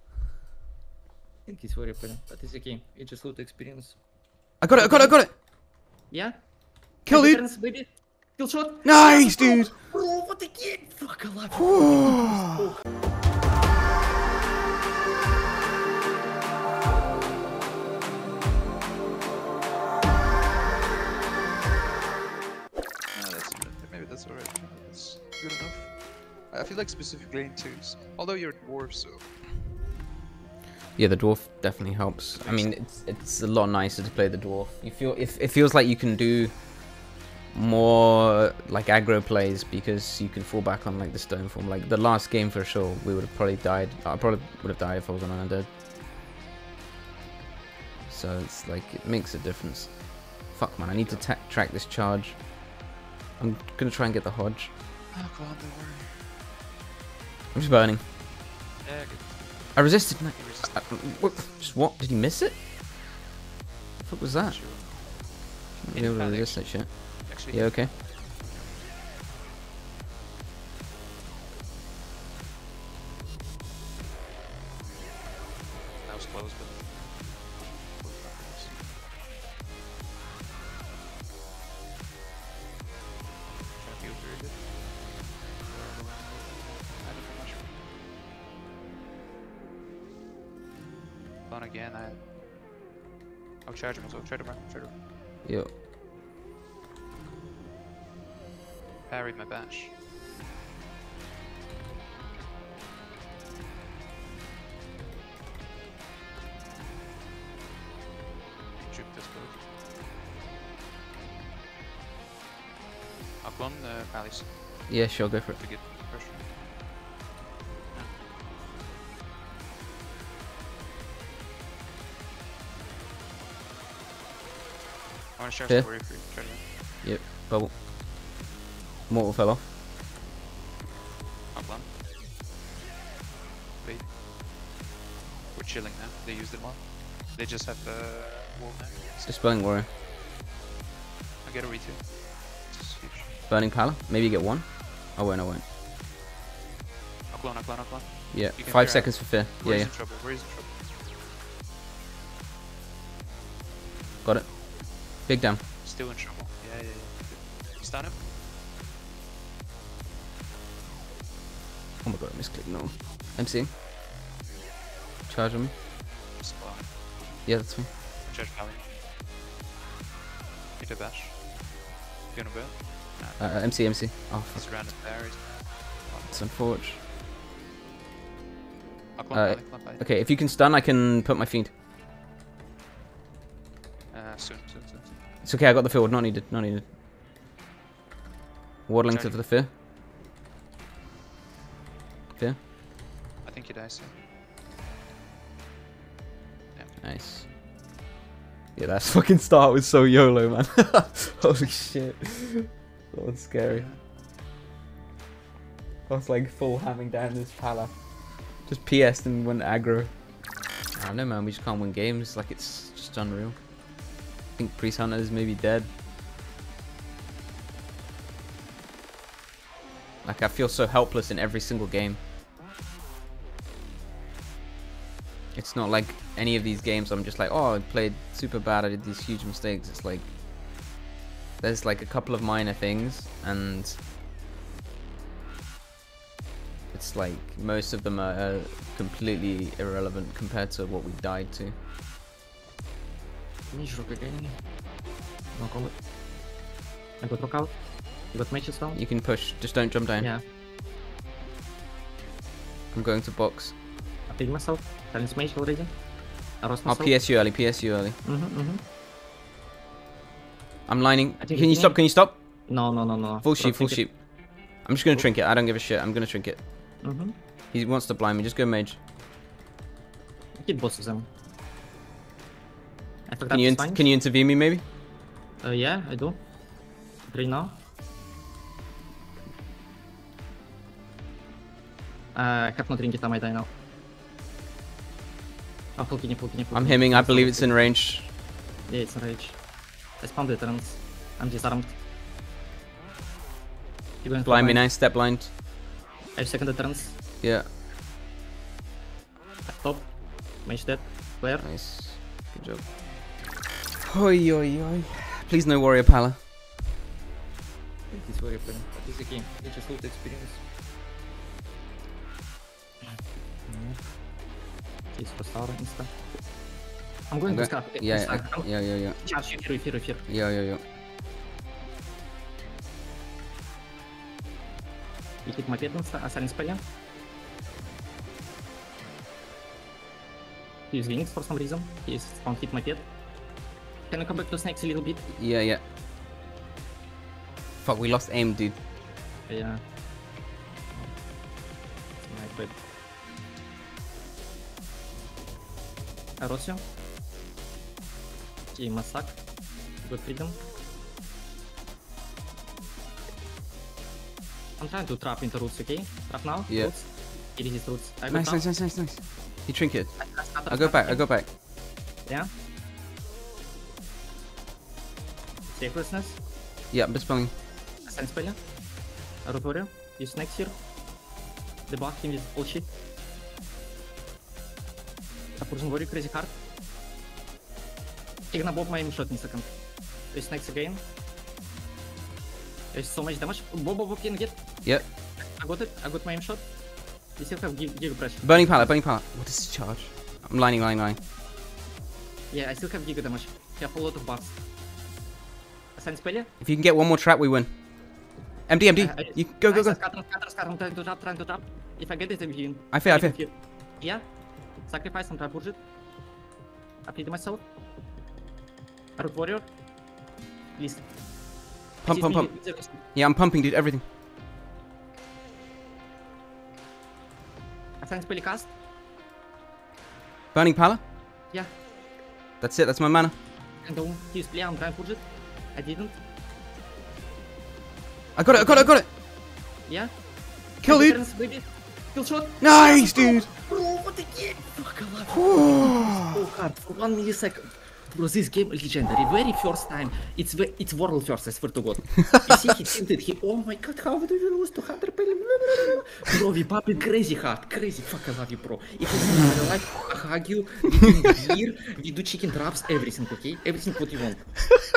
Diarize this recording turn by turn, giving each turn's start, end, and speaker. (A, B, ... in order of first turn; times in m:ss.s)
0:01.4-0:04.0 A
0:04.6-0:05.3 B
0:04.7-0:05.2 A
0:06.1-0:12.8 A
0:07.0-0:07.4 B
0:08.8-0:09.7 B
0:11.6-0:12.6 B
0:23.1-0:29.3 C
0:31.0-0:45.7 B
0:32.3-0:32.8 C
0:48.1-0:52.7 B
0:50.8-0:51.3 C
0:53.4-0:54.7 B
0:55.1-0:56.1 C
0:57.5-0:58.0 B
0:58.8-1:01.3 C
0:59.7-1:02.6 B
1:04.0-1:04.6 B
1:04.4-1:08.8 C
1:05.8-1:07.9 B
1:16.0-1:18.8 C
1:23.8-1:27.8 C
1:31.4-1:32.3 C
1:33.6-1:34.9 C
1:35.4-1:35.7 B
1:39.0-1:39.9 C
1:48.8-1:49.6 C
1:53.4-1:56.5 C
1:54.9-1:55.6 B
1:57.9-1:58.3 C
2:05.4-2:06.6 C
2:07.0-2:07.8 B
2:09.1-2:09.7 B
2:11.5-2:11.9 C
2:13.8-2:14.2 C
2:15.5-2:19.0 C
2:19.2-2:19.9 B
2:21.4-2:23.4 C
2:23.5-2:25.6 B
2:27.3-2:30.7 C
2:28.3-2:29.9 B
2:34.2-2:35.6 B
2:35.8-2:38.2 C
2:42.0-2:43.7 B
2:45.3-2:45.7 B
2:46.3-2:47.3 C
2:47.4-2:47.9 B
2:48.2-2:48.9 C
2:50.8-2:56.6 C
2:53.4-2:54.7 B
2:56.3-2:57.0 B
2:59.2-3:00.0 C
2:59.3-3:01.7 B
3:04.1-3:05.2 C
3:05.4-3:06.9 B
3:08.9-3:09.7 B
3:09.0-3:09.4 C
3:13.4-3:14.2 C
3:16.7-3:17.0 C
3:17.0-3:17.4 B
3:18.8-3:23.9 B
3:23.7-3:24.0 C
3:26.1-3:30.3 B
3:30.9-3:35.9 B
3:40.2-3:42.2 B
3:45.5-3:50.3 B
3:51.6-3:54.0 B
3:56.9-4:01.7 B
4:03.7-4:04.6 A
4:05.5-4:06.0 A
4:07.2-4:07.8 A
4:08.3-4:09.0 A
4:08.9-4:10.3 B
4:12.9-4:13.7 B
4:14.3-4:16.0 A
4:16.6-4:17.2 A
4:16.8-4:18.2 B
4:18.2-4:18.8 A
4:20.9-4:22.4 B
4:21.4-4:22.0 A
4:22.7-4:24.1 A
4:23.4-4:26.6 B
4:27.0-4:27.3 A
4:27.7-4:29.0 B
4:30.6-4:31.3 A
4:33.3-4:34.1 A
4:33.5-4:34.8 B
4:35.6-4:36.4 A
4:37.3-4:37.8 A
4:42.3-4:43.7 A
4:46.0-4:47.9 A
4:46.7-4:48.3 B
4:48.9-4:49.6 A
4:50.2-4:51.9 A
4:54.2-4:54.8 A
4:54.4-4:55.6 B
4:56.3-4:57.2 A
4:57.4-4:57.7 B
4:59.6-5:01.7 A
5:01.6-5:02.9 B
5:04.0-5:06.4 B
5:08.1-5:10.6 A
5:13.7-5:14.0 A
5:15.1-5:16.1 A
5:17.3-5:18.7 A
5:17.5-5:19.2 B
5:19.2-5:20.2 A
5:20.3-5:20.8 B
5:25.4-5:26.8 A
5:30.9-5:33.1 A
5:34.1-5:35.2 A
5:35.3-5:35.8 B
5:37.8-5:38.8 B
5:39.5-5:39.8 A
5:42.3-5:42.7 A
5:46.4-5:46.8 A
5:48.7-5:49.4 A
5:50.0-5:50.6 A
5:54.8-5:58.6 A
5:56.7-5:56.9 B
5:58.3-6:01.5 B
6:00.2-6:01.2 A
6:05.7-6:06.4 A
6:06.9-6:07.5 B
6:08.0-6:08.6 A
6:09.4-6:10.8 A
6:11.9-6:12.9 A
6:15.6-6:16.5 A
6:18.5-6:19.7 A
6:20.3-6:21.0 A
6:22.9-6:24.6 A
6:25.4-6:26.6 A
6:27.4-6:28.8 A
6:28.4-6:31.2 B
6:32.5-6:34.6 A
6:36.0-6:36.5 A
6:36.6-6:37.7 B
6:38.7-6:40.0 B
6:39.0-6:44.2 A
6:42.9-6:43.4 B
6:44.8-6:45.8 A
6:47.0-6:47.6 A
6:49.2-6:49.6 A
6:50.8-6:51.1 A
6:52.0-6:54.0 B
6:52.0-6:53.0 A
6:58.0-6:58.7 A
7:00.5-7:01.0 B
7:02.6-7:03.3 B
7:03.8-7:06.1 A
7:08.4-7:09.1 B
7:08.5-7:08.9 A
7:09.8-7:10.1 A
7:10.8-7:11.2 B
7:10.8-7:34.6 A
7:12.6-7:13.5 B
7:15.4-7:16.2 B